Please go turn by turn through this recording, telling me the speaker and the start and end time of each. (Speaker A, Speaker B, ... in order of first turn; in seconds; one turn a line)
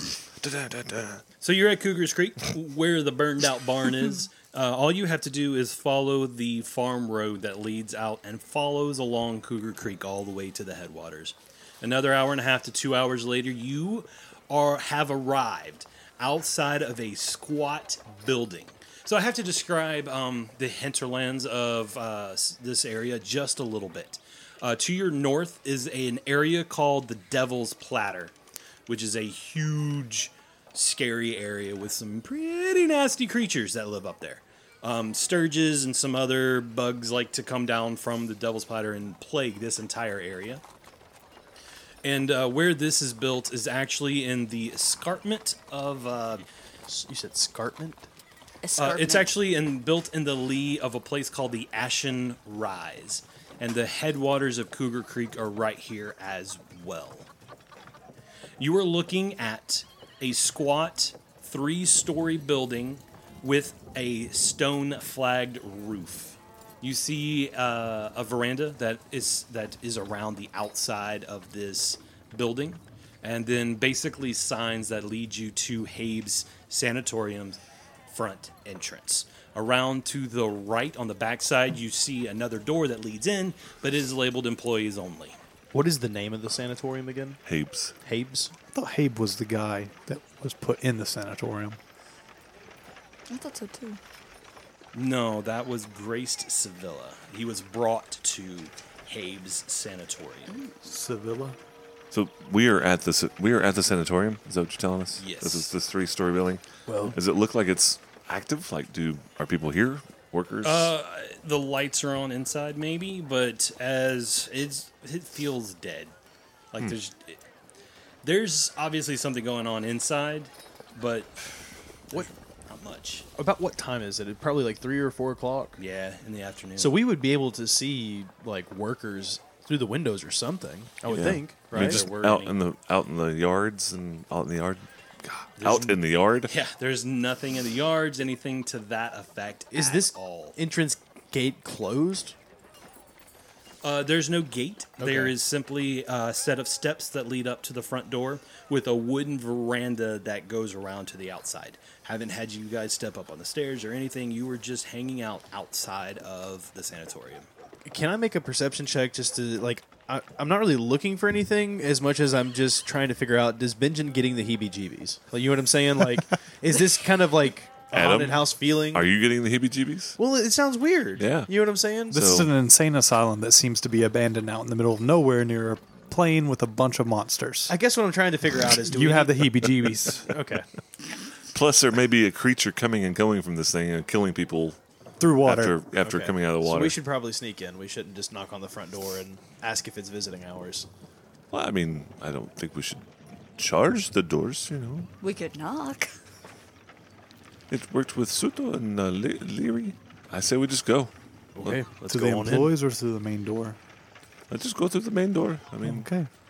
Speaker A: 0.4-1.2
Speaker B: 1.4-28.4
Speaker B: 28.9-40.6
Speaker B: 42.0-46.5
Speaker C: 46.9-48.1
Speaker D: 48.6-49.3
Speaker B: 48.8-57.3
Speaker B: 58.6-85.4
Speaker C: 85.7-87.4
Speaker A: 87.5-88.0
Speaker C: 88.0-88.5
Speaker E: 88.7-91.8
Speaker D: 93.3-94.0
Speaker B: 94.9-100.5
Speaker D: 100.5-100.8
Speaker E: 100.8-101.6
Speaker A: 102.1-110.9
Speaker B: 105.2-105.7
Speaker C: 106.9-107.2
Speaker B: 110.6-116.1
Speaker B: 116.7-117.4
Speaker B: 118.2-121.5
Speaker B: 122.1-123.3
Speaker C: 123.4-125.8
Speaker B: 125.8-127.0
Speaker C: 126.8-132.1
Speaker A: 131.1-136.5
Speaker B: 131.7-132.6
Speaker B: 135.6-140.6
Speaker C: 139.7-142.4
Speaker B: 143.8-157.5
Speaker C: 145.0-145.3
Speaker C: 157.9-169.1
Speaker A: 167.9-170.2
Speaker C: 170.2-172.3
Speaker A: 171.2-171.5
Speaker E: 172.1-177.7
Speaker A: 172.1-172.5
Speaker C: 177.7-180.7
Speaker E: 178.9-180.3
Speaker A: 181.5-184.8
Speaker E: 185.2-185.8
Speaker A: 185.4-187.0
Speaker C: 186.0-190.9
Speaker A: 191.5-193.1
Speaker A: 193.6-195.1
Speaker D: 195.2-196.1
Speaker A: 197.7-201.1
Speaker C: 201.6-202.8
Speaker E: 202.1-203.8
Speaker A: 204.5-206.1
Speaker E: 205.8-206.3